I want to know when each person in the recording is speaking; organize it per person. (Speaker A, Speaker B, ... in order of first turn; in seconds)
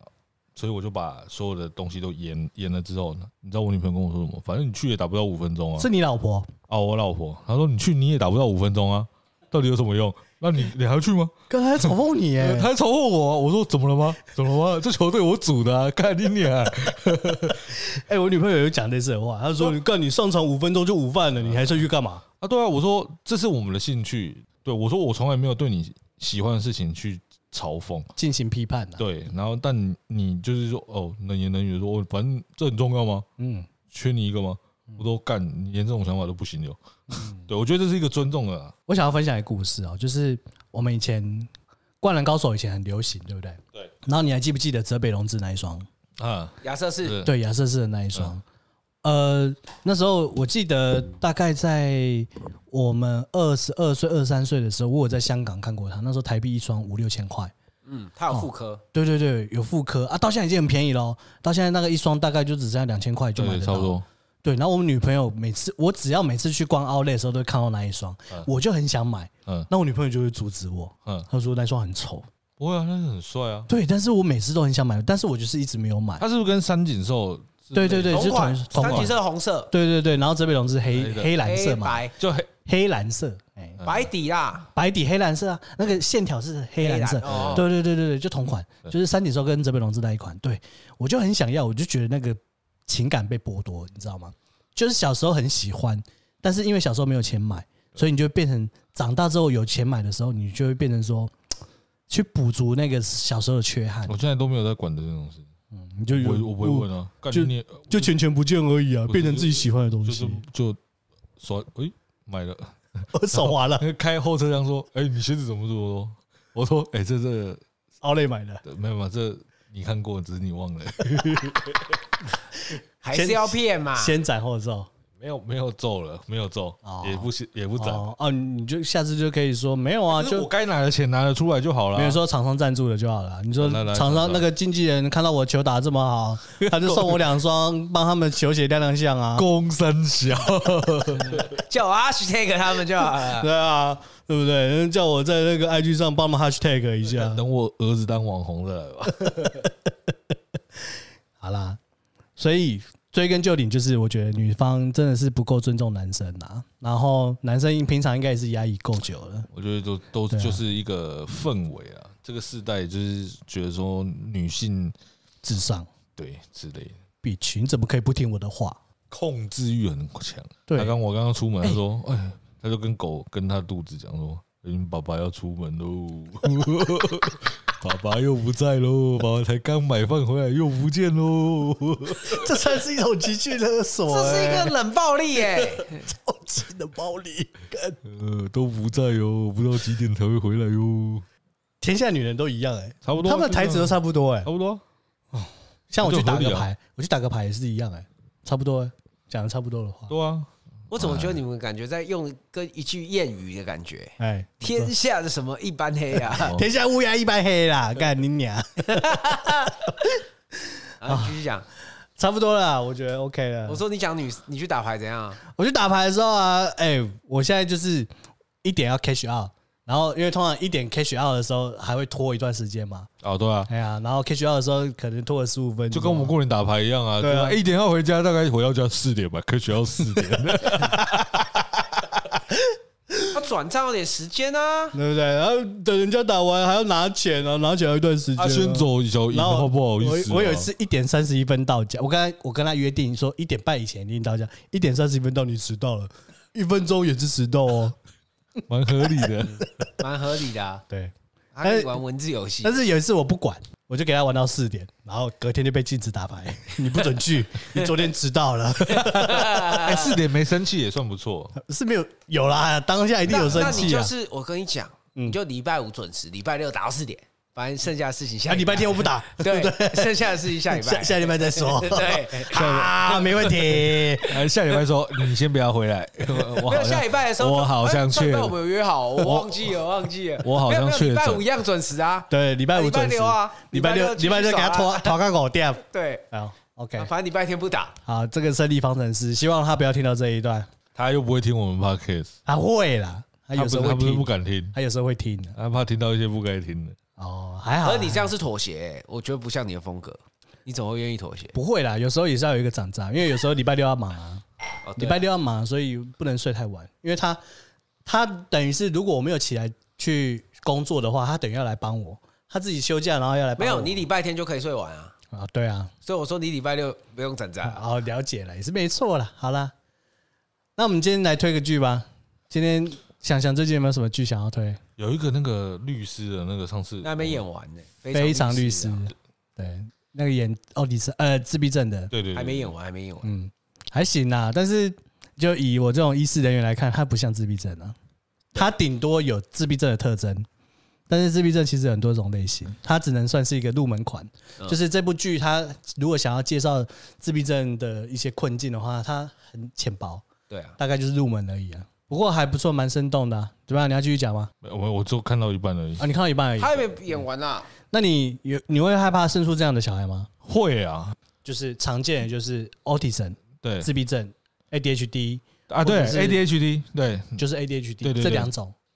Speaker A: 0.5-5.9, 6.7-17.8, 21.4-21.8, 22.4-28.1, 29.0-33.2, 33.9-38.7, 46.2-47.3, 63.4-64.0, 72.6-73.7, 76.2-79.1, 80.9-81.4, 82.2-82.5, 83.8-84.1, 87.2-87.6, 104.1-105.5, 106.1-108.1, 109.1-110.8, 111.4-117.6, 118.6-122.0, 125.2-128.1, 130.1-132.2, 133.6-134.4, 136.6-137.2, 139.3-141.5, 147.1-149.6, 159.5-164.9, 166.2-167.0, 169.1-182.5, 188.0-191.2, 193.0-194.8, 196.0-196.7, 200.1-201.4, 223.2-223.7, 225.9-231.5, 238.3-240.7, 248.7-249.7, 259.7-261.6, 263.5-263.9, 274.2-278.6, 279.2-279.8, 280.4-281.4, 290.9-292.3, 293.5-294.8, 295.6-296.9, 325.0-327.4, 332.1-332.7, 354.6-356.1, 360.4-361.1, 363.6-363.9, 365.7-367.4, 368.0-368.5
Speaker B: 5.8-6.5, 11.5-12.7, 17.9-22.2, 28.2-29.0, 33.4-33.7, 37.1-37.4, 38.9-45.9, 47.2-48.4, 49.0-57.5, 58.3-72.3, 73.7-76.2, 77.7-79.2, 79.7-82.0, 82.7-83.8, 84.7-101.3, 102.1-104.2, 105.7-110.4, 113.1-113.8, 118.0-118.6, 123.1-124.9, 126.8-130.5, 131.9-139.5, 143.2-147.4, 149.1-149.9, 151.4-151.8, 152.4-159.5, 160.3-160.6, 165.4-165.9, 167.2-168.8, 170.7-170.9, 182.2-184.8, 185.4-188.0, 191.8-194.5, 195.3-200.1, 204.2-204.9, 206.3-211.3, 212.2-213.8, 215.5-218.1, 218.6-223.1, 223.7-226.3, 227.2-227.6, 230.6-233.3, 234.9-248.0, 250.9-251.9, 252.6-259.8, 261.6-264.1, 268.5-274.5, 282.3-287.1, 288.1-290.7, 292.4-295.6, 297.2-298.3, 301.5-304.4, 304.9-307.4, 308.0-314.1, 315.3-315.9, 317.6-319.7, 320.8-324.8, 328.1-332.1, 333.2-337.9, 338.5-340.5, 341.1-350.2, 350.8-354.5, 356.0-357.0, 357.9-360.3, 361.4-366.4, 367.4-368.7
Speaker C: 46.6-47.2, 57.8-58.8, 78.1-79.7, 81.4-82.1, 83.8-84.7, 86.8-87.6, 123.0-124.2, 141.3-143.5, 184.1-186.0, 200.9-206.5, 208.9-209.7, 211.0-211.6, 213.7-215.4, 233.3-235.0, 250.0-250.8, 251.5-252.7, 258.8-260.2, 263.3-273.9, 276.4-285.2, 285.8-286.2, 286.9-287.9, 297.8-301.6, 304.8-305.2, 313.6-315.1, 316.0-317.8, 327.0-329.1, 332.3-333.3, 350.5-350.8, 356.6-357.7